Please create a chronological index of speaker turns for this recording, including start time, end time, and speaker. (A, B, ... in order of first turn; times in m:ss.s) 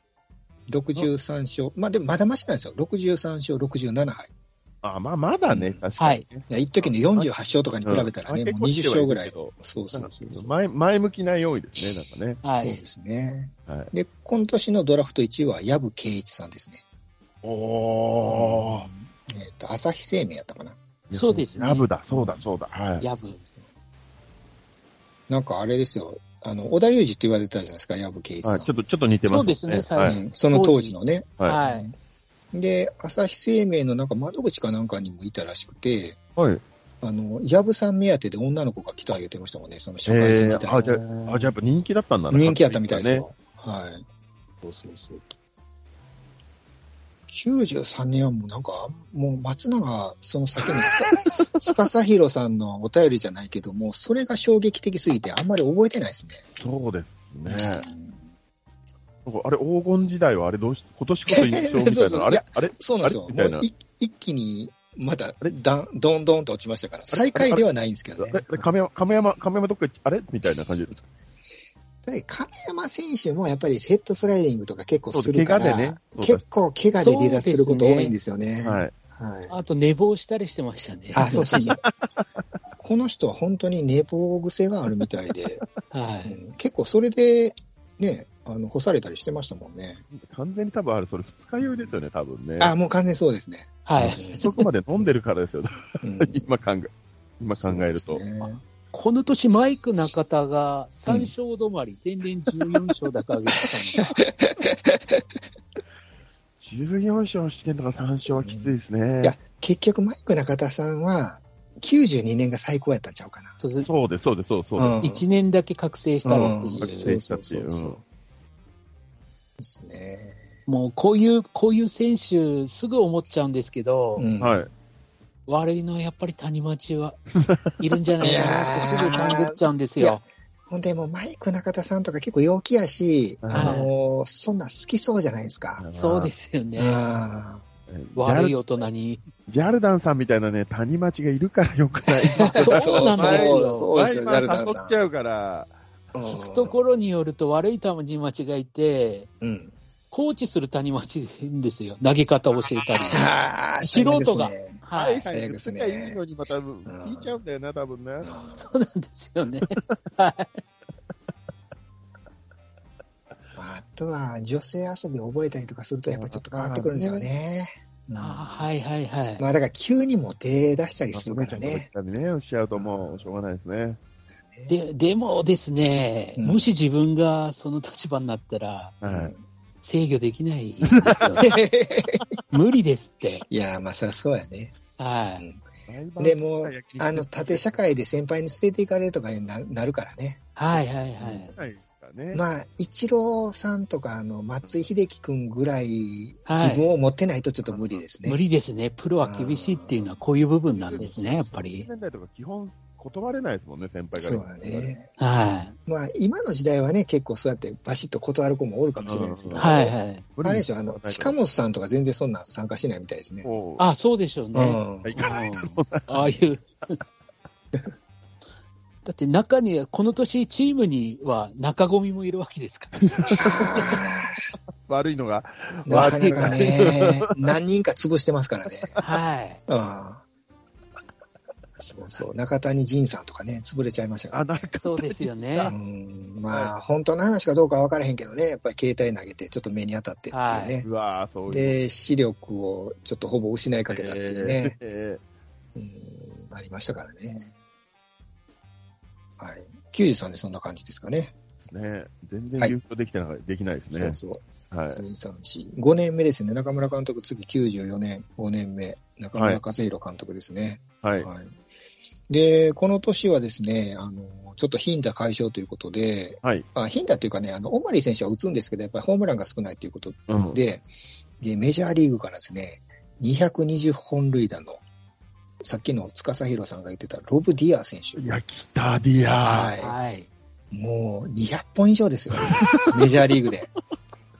0:00.7-0:04.3 A
0:04.8-0:07.3 B
0:05.5-0:05.8 A
0:06.0-0:06.2 C
0:06.5-0:10.5 A
0:07.8-0:12.4 B
0:12.4-0:12.8 C
0:12.6-0:16.8 A
0:17.4-0:18.9 B
0:18.3-0:20.8 A
0:21.1-0:23.1 B
0:21.1-0:21.8 C
0:22.1-0:22.4 A
0:23.0-0:23.4 C
0:23.2-0:23.7 A
0:25.3-0:28.7 A
0:28.4-0:30.2 B
0:29.3-0:31.9 C
0:30.0-0:31.9 A
0:32.5-0:36.2 A
0:36.4-0:36.6 B
0:37.0-0:41.5 A
0:40.1-0:43.2 B
0:42.3-0:44.0 A
0:44.6-0:45.2 A
0:47.3-0:56.4 A
0:50.6-0:51.8 B
0:56.5-0:57.9 B
0:57.5-0:58.2 A
0:59.2-1:03.6 B
1:01.3-1:08.7 A
1:07.1-1:07.6 B
1:08.2-1:11.0 B
1:12.0-1:19.5 A
1:15.1-1:16.4 B
1:17.0-1:18.1 C
1:18.6-1:18.9 B
1:19.5-1:21.8 C
1:21.1-1:21.8 A
1:21.2-1:22.2 B
1:22.8-1:25.6 A
1:25.9-1:26.4 C
1:26.2-1:30.0 A
1:30.1-1:32.7 B
1:31.6-1:32.0 A
1:32.6-1:34.5 A
1:33.8-1:34.5 C
1:34.0-1:38.2 B
1:36.0-1:36.5 A
1:37.5-1:38.6 A
1:38.9-1:44.2 C
1:44.0-1:45.2 A
1:46.6-1:49.4 B
1:48.3-1:53.6 A
1:53.6-1:53.9 C
1:53.8-1:55.0 B
1:54.8-1:55.2 A
1:55.0-1:57.1 C
1:56.2-1:58.0 A
1:56.2-1:58.0 B
1:59.6-2:00.4 A
2:00.7-2:04.2 C
2:04.2-2:04.6 A
2:04.4-2:04.7 B
2:05.5-2:07.2 C
2:07.4-2:07.7 B
2:07.8-2:10.2 C
2:08.2-2:15.8 A
2:13.4-2:13.8 B
2:13.5-2:13.9 C
2:15.8-2:16.3 B
2:15.9-2:17.0 C
2:16.8-2:17.6 A
2:17.9-2:18.6 B
2:18.2-2:19.3 C
2:19.5-2:25.7 B
2:22.3-2:25.1 A
2:22.4-2:23.9 C
2:26.1-2:26.8 A
2:26.3-2:29.3 C
2:29.4-2:29.7 A
2:30.1-2:33.2 C
2:33.1-2:36.2 A
2:33.8-2:35.3 C
2:34.9-2:38.3 B
2:36.8-2:37.3 A
2:38.2-2:38.7 A
2:38.5-2:40.6 C
2:43.6-2:48.6 A
2:46.1-2:47.3 B
2:48.2-2:49.4 C
2:49.4-2:51.9 A
2:51.1-2:54.0 B
2:52.7-2:53.3 A
2:54.5-2:54.8 A
2:54.7-2:59.0 C
2:56.4-2:56.7 A
2:59.0-2:59.3 B
2:59.0-2:59.4 A
2:59.8-3:01.5 C
3:01.0-3:01.5 B
3:01.4-3:02.2 A
3:02.5-3:03.4 C
3:03.5-3:04.7 A
3:05.0-3:05.4 C
3:05.9-3:07.9 B
3:06.2-3:11.6 A
3:10.6-3:11.5 C
3:11.5-3:12.4 B
3:12.3-3:18.4 A
3:16.4-3:16.8 C
3:17.6-3:18.0 B
3:18.2-3:21.9 C
3:19.2-3:20.2 A
3:20.7-3:24.9 B
3:20.9-3:21.6 A
3:24.2-3:25.1 A
3:25.2-3:25.8 C
3:25.9-3:33.5 A
3:29.0-3:29.8 B
3:29.6-3:30.2 C
3:30.4-3:31.4 B
3:33.4-3:33.8 B
3:33.8-3:37.0 C
3:34.5-3:35.2 A
3:35.0-3:36.2 B
3:39.0-3:44.0 C
3:43.0-3:44.0 B
3:43.4-3:44.5 A
3:44.8-3:47.2 B
3:45.9-3:49.0 A
3:45.9-3:46.8 C
3:49.0-3:49.6 C
3:49.7-3:50.2 A
3:51.8-3:54.7 A
3:54.3-3:55.8 B
3:54.8-3:55.7 C
3:55.7-4:00.9 A
4:00.3-4:00.8 C
4:00.8-4:01.8 B
4:01.5-4:04.7 A
4:03.9-4:05.2 B
4:05.7-4:07.5 A
4:09.4-4:11.3 A
4:11.7-4:14.2 B
4:13.9-4:21.5 A
4:14.7-4:15.0 B
4:19.3-4:19.6 B
4:21.0-4:21.3 B
4:22.3-4:30.8 A
4:30.3-4:30.6 B
4:31.4-4:34.8 A
4:35.6-4:38.3 A
4:38.2-4:39.7 B
4:39.4-4:39.9 A
4:39.4-4:40.3 C
4:40.7-4:43.7 A
4:42.3-4:43.4 B